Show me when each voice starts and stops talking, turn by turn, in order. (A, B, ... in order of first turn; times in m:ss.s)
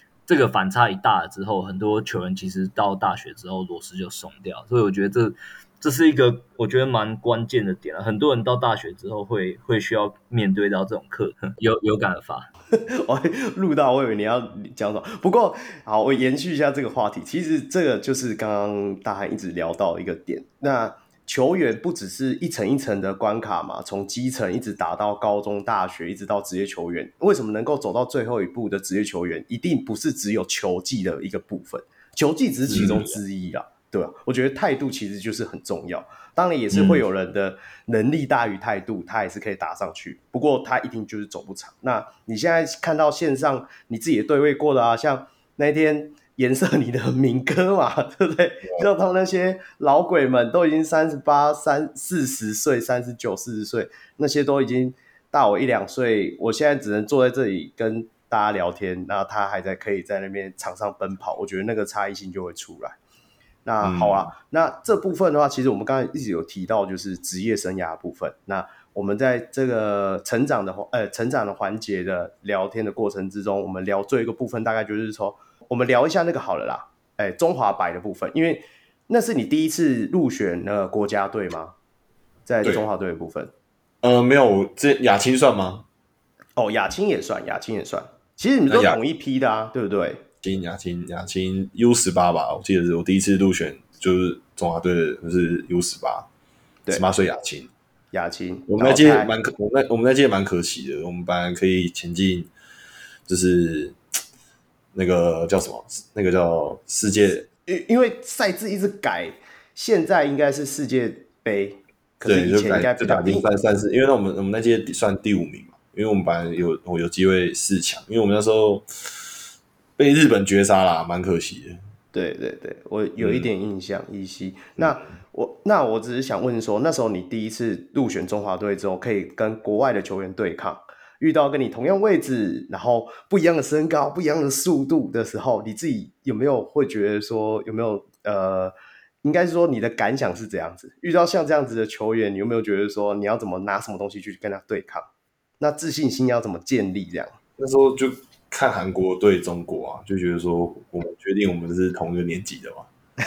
0:00.3-0:12.5 A
0:12.7-1:03.0 B
0:32.7-0:33.2 C
0:36.7-0:37.0 C
1:03.6-1:21.7 B
1:03.8-1:04.3 C
1:22.4-1:23.5 B
1:24.0-1:25.8 C
1:26.6-1:30.2 B
1:28.7-1:29.0 C
1:30.4-1:36.3 C
1:36.9-1:37.7 C
1:38.1-1:39.3 B
1:38.7-1:42.5 C
1:43.3-1:44.0 C
1:44.9-1:47.5 C
1:47.7-1:53.4 B
1:52.2-1:58.8 C
2:00.0-2:01.8 C
2:02.1-2:25.1 B
2:03.2-2:03.5 C
2:04.8-2:05.1 C
2:25.6-2:27.4 B
2:27.6-2:32.9 C